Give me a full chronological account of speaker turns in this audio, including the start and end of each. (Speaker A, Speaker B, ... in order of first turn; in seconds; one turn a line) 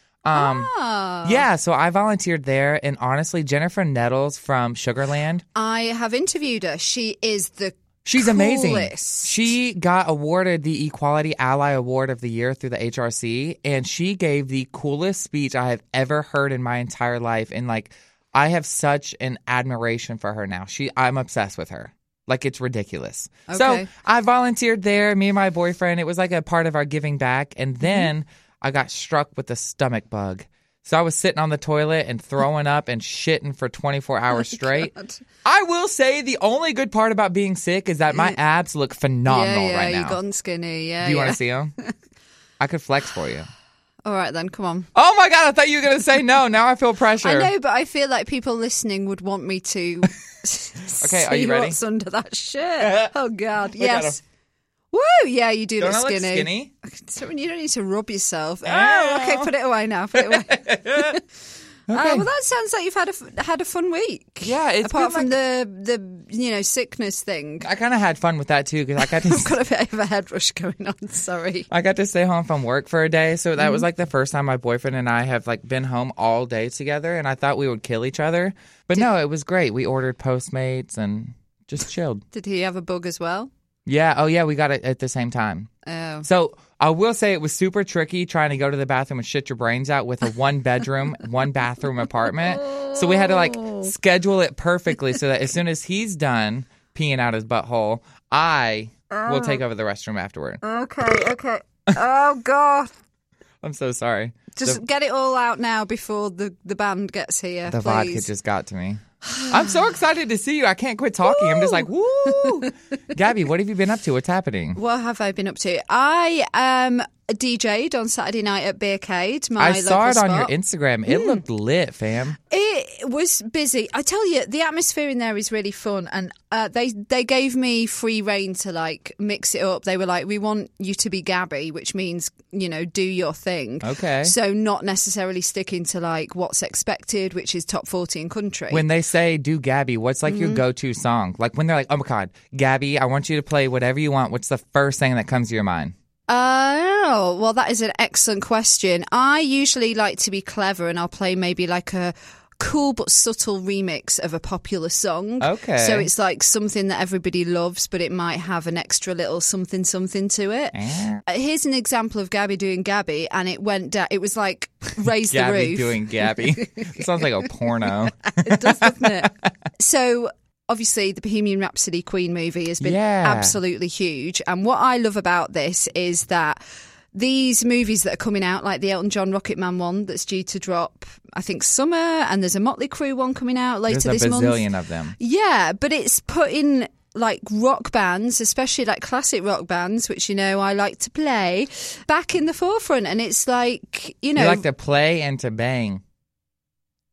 Speaker A: 0.2-0.7
Speaker B: 0.3-1.4
Speaker A: 1.2-5.4
Speaker B: 5.5-9.4
Speaker A: 8.1-34.9
Speaker B: 23.5-23.9
Speaker B: 27.8-28.1
Speaker B: 34.3-35.2
Speaker A: 35.5-40.2
Speaker B: 39.3-41.4
Speaker A: 41.0-41.7
Speaker A: 42.6-43.5
Speaker B: 44.0-44.9
Speaker A: 45.0-47.5
Speaker B: 47.2-54.2
Speaker A: 51.0-51.8
Speaker A: 52.8-53.1
Speaker A: 53.7-54.2
Speaker B: 54.9-61.2
Speaker A: 55.8-56.7
Speaker A: 58.7-59.5
Speaker A: 60.1-61.2
Speaker A: 61.9-62.3
Speaker B: 61.9-67.7
Speaker A: 64.4-65.3
Speaker A: 67.6-69.5
Speaker B: 69.0-71.7
Speaker A: 71.7-82.2
Speaker B: 73.6-73.8
Speaker B: 82.3-83.5
Speaker A: 83.9-85.7
Speaker B: 85.9-86.3
Speaker A: 86.2-100.6
Speaker B: 92.2-93.9
Speaker B: 99.1-99.6
Speaker B: 100.6-102.9
Speaker A: 103.6-104.8
Speaker B: 104.5-108.3
Speaker A: 107.7-114.8
Speaker B: 109.3-109.8
Speaker B: 111.2-111.9
Speaker B: 112.4-112.7
Speaker B: 114.8-120.5
Speaker A: 119.6-122.4
Speaker B: 121.1-121.4
Speaker B: 122.5-138.8
Speaker A: 133.8-134.3
Speaker A: 138.7-145.9
Speaker B: 140.3-140.6
Speaker B: 146.3-167.2
Speaker A: 155.4-156.1
Speaker A: 160.7-161.2
Speaker A: 165.2-169.5
Speaker B: 167.8-176.6
Speaker A: 172.8-173.6
Speaker B: 177.1-184.7
Speaker A: 183.9-185.2
Speaker B: 185.2-194.7
Speaker A: 194.4-196.0